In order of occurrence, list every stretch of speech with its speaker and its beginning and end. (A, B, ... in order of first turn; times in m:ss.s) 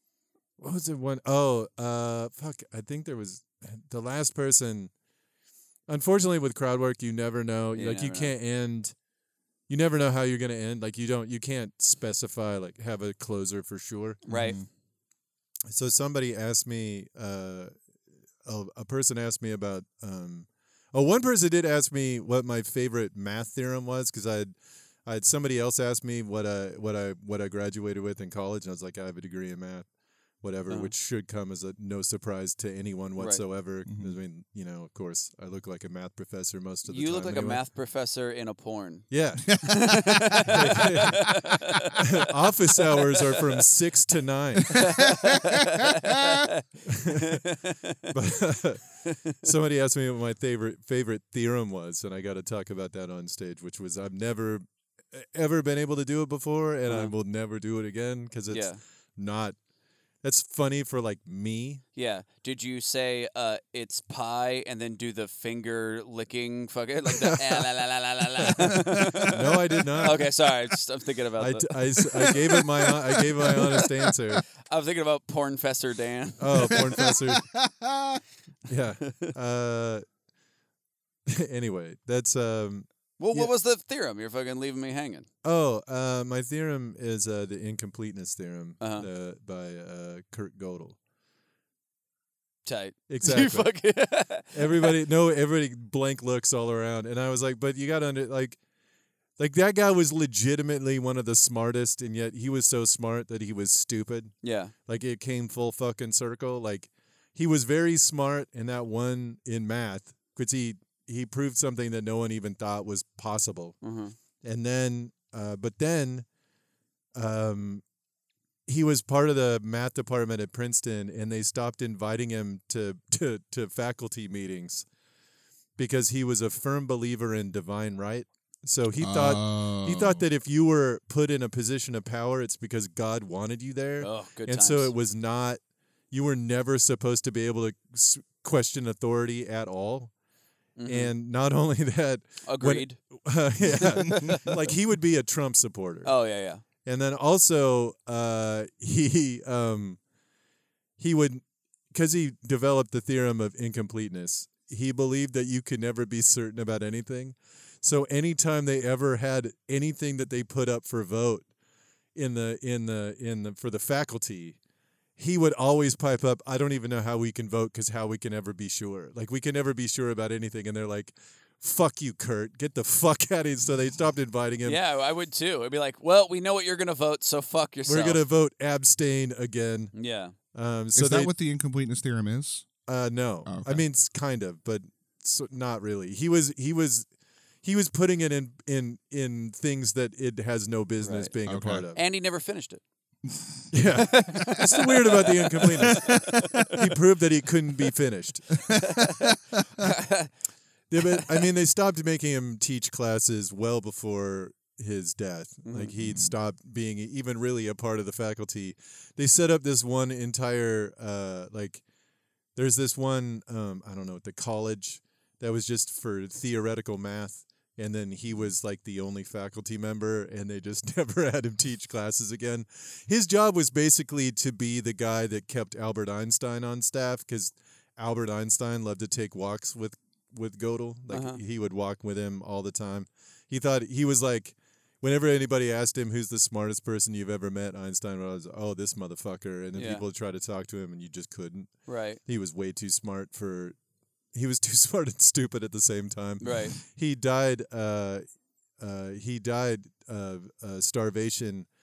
0:00.6-0:04.9 A
0:05.9-0:08.9 A
0:07.8-0:08.3 B
0:09.7-0:14.2 A
0:14.3-0:14.6 B
0:14.3-0:14.6 C
0:15.7-0:17.7 A
0:18.4-0:24.6 A
0:25.1-0:29.9 A
0:30.4-0:37.6 A
0:33.2-0:33.4 B
0:33.9-0:34.1 C
0:36.9-0:42.0 B
0:39.1-0:41.4 A
0:39.5-0:40.4 C
0:42.0-0:45.1 A
0:42.9-0:43.5 B
0:44.7-0:48.0 B
0:46.9-0:47.4 A
0:48.1-0:59.6 A
0:49.1-0:49.4 B
0:56.9-0:57.1 B
0:58.5-0:58.8 B
1:00.2-1:01.8 A
1:02.0-1:09.4 B
1:07.1-1:07.6 A
1:08.6-1:10.1 C
1:08.6-1:10.2 A
1:10.0-1:11.8 B
1:11.4-1:14.4 A
1:12.2-1:13.9 C
1:14.7-1:17.0 B
1:16.4-1:17.5 A
1:16.7-1:18.2 C
1:18.7-1:20.1 A
1:21.3-1:23.5 A
1:23.2-1:25.3 B
1:25.4-1:31.0 A
1:28.8-1:29.1 B
1:32.7-1:35.0 B
1:33.1-1:33.8 A
1:34.5-1:38.6 A
1:39.4-1:53.8 A
1:44.4-1:44.7 B
1:53.8-1:54.2 B
1:54.4-1:56.3 A
1:57.2-1:57.8 A
1:58.7-2:04.9 A
2:05.8-2:20.1 A
2:09.0-2:10.2 C
2:14.0-2:14.9 B
2:20.8-2:21.1 B
2:20.8-2:26.1 A
2:22.4-2:23.0 B
2:23.7-2:24.5 B
2:26.0-2:26.6 B
2:26.8-2:30.0 A
2:31.0-2:41.5 A
2:42.2-2:44.6 A
2:45.2-2:54.8 A
2:54.6-2:58.2 B
2:57.9-2:59.9 A
2:59.9-3:00.4 B
3:00.5-3:01.3 A
3:01.0-3:02.7 C
3:02.9-3:07.1 A
3:03.5-3:03.8 C
3:07.6-3:12.0 A
3:11.0-3:11.4 B
3:11.5-3:11.9 C
3:11.9-3:12.8 B
3:13.7-3:18.7 A
3:14.0-3:16.8 B
3:16.1-3:16.4 C
3:18.7-3:20.3 B
3:20.9-3:31.8 A
3:25.6-3:25.9 B
3:32.6-4:03.8 A
3:51.1-3:51.4 B
3:59.8-4:00.0 B
4:01.9-4:02.2 B
4:04.3-4:08.2 A
4:06.4-4:06.8 B
4:08.8-4:11.7 A